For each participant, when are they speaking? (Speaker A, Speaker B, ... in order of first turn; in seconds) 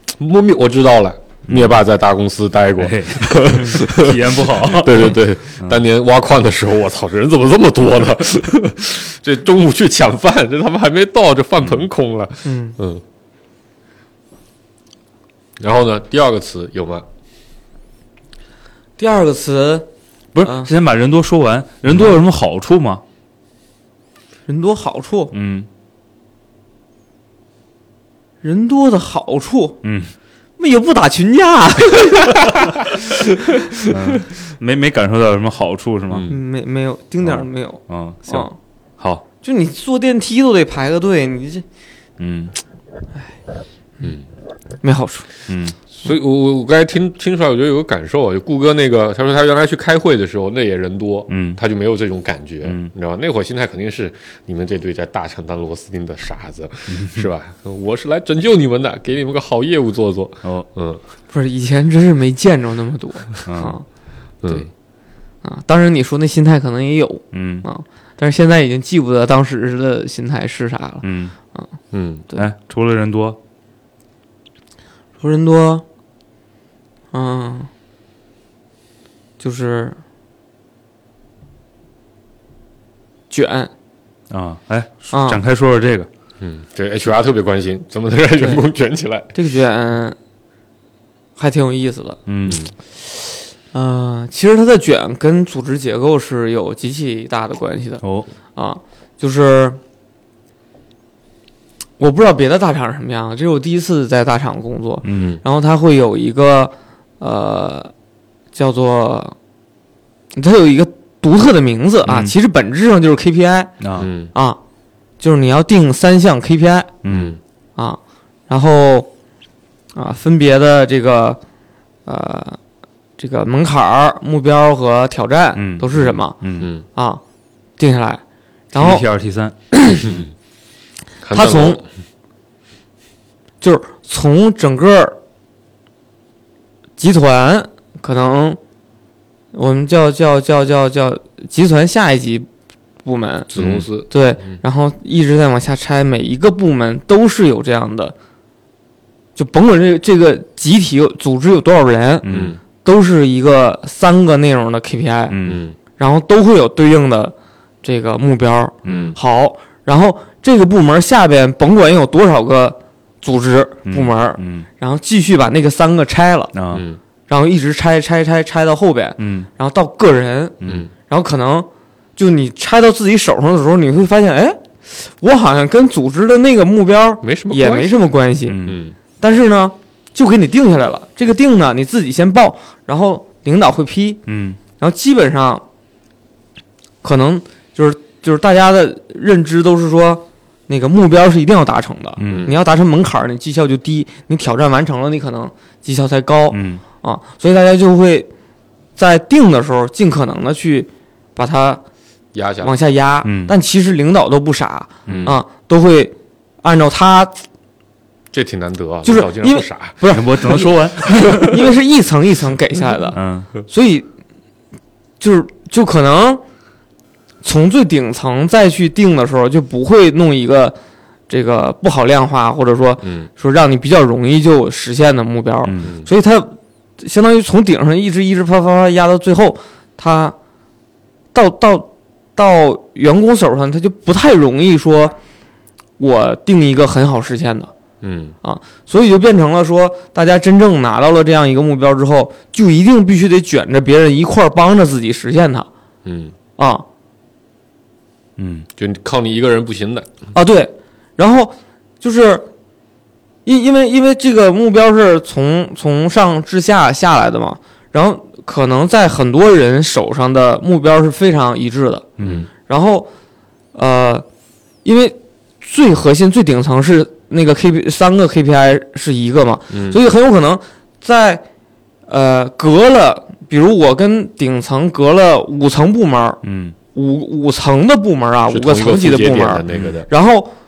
Speaker A: 0.2-13.0, 15.6-17.1, 36.1-36.4, 44.0-44.2, 46.0-61.0, 64.4-64.7, 71.9-72.2, 86.4-89.3, 114.0-114.3, 117.0-117.4, 126.0-126.8, 131.2-131.8, 143.5-144.5, 152.3-152.6, 155.4-155.8, 158.8-159.2, 166.7-167.0, 170.6-170.9, 177.2-177.9, 178.6-178.9, 192.2-192.6, 202.3-202.7, 205.1-205.3, 208.3-211.4, 223.0-223.3, 238.0-238.3, 246.0-246.3, 248.8-250.1, 262.2-262.5, 269.7-270.0, 278.5-280.1
Speaker B: 1.5-1.8, 2.8-5.8, 20.3-23.0, 25.3-25.7, 29.8-30.1, 33.8-36.3, 37.2-38.5, 39.0-39.2, 42.2-42.5, 45.5-45.8, 51.3-51.6, 52.6-52.9, 56.9-57.2, 63.5-63.7, 67.3-67.6, 71.0-71.3, 72.3-73.4, 84.3-86.1, 92.3-92.6, 98.0-98.3, 105.0-105.3, 112.0-112.3, 113.8-114.1, 117.0-117.3, 125.5-126.7, 128.8-129.5, 152.2-152.6, 155.3-155.6, 158.8-159.1, 163.9-164.7, 166.5-166.8, 169.2-169.5, 170.6-170.9, 178.5-178.8, 184.3-184.6, 192.2-192.5, 196.5-196.8, 203.2-203.5, 210.1-211.7, 213.1-213.5, 225.6-225.9, 248.4-248.7, 262.2-262.4, 276.4-276.7
Speaker C: 12.4-12.8, 19.0-19.9, 20.4-20.7, 24.5-25.3, 28.4-29.8, 30.6-32.5, 36.3-38.5, 39.4-41.6, 44.8-45.3, 61.3-63.8, 65.4-71.0, 75.2-75.8, 77.1-77.7, 79.4-80.0, 83.3-83.7, 85.1-85.4, 89.3-90.2, 91.4-92.2, 93.7-98.0, 98.5-99.8, 102.0-107.9, 108.5-109.3, 110.3-113.7, 114.3-114.6, 115.2-116.9, 117.8-119.1, 119.9-121.4, 122.0-122.6, 123.2-126.3, 126.9-127.2, 127.8-128.2, 128.7-129.0, 129.7-130.0, 131.3-131.8, 133.6-135.2, 137.0-138.6, 139.5-142.5, 143.0-148.1, 149.3-152.3, 152.8-155.4, 156.0-166.5, 167.3-170.6, 171.1-178.6, 179.2-184.2, 184.8-185.6, 187.0-198.3, 199.0-201.8, 202.6-207.3, 209.0-210.7, 211.2-214.1, 215.2-216.4, 217.4-220.8, 221.3-230.3, 231.3-235.2, 236.0-237.7, 238.4-245.7, 246.6-246.8, 250.3-252.5, 253.4-262.1, 262.7-263.1, 263.7-264.2, 264.8-271.4, 272.1-276.4, 276.9-280.5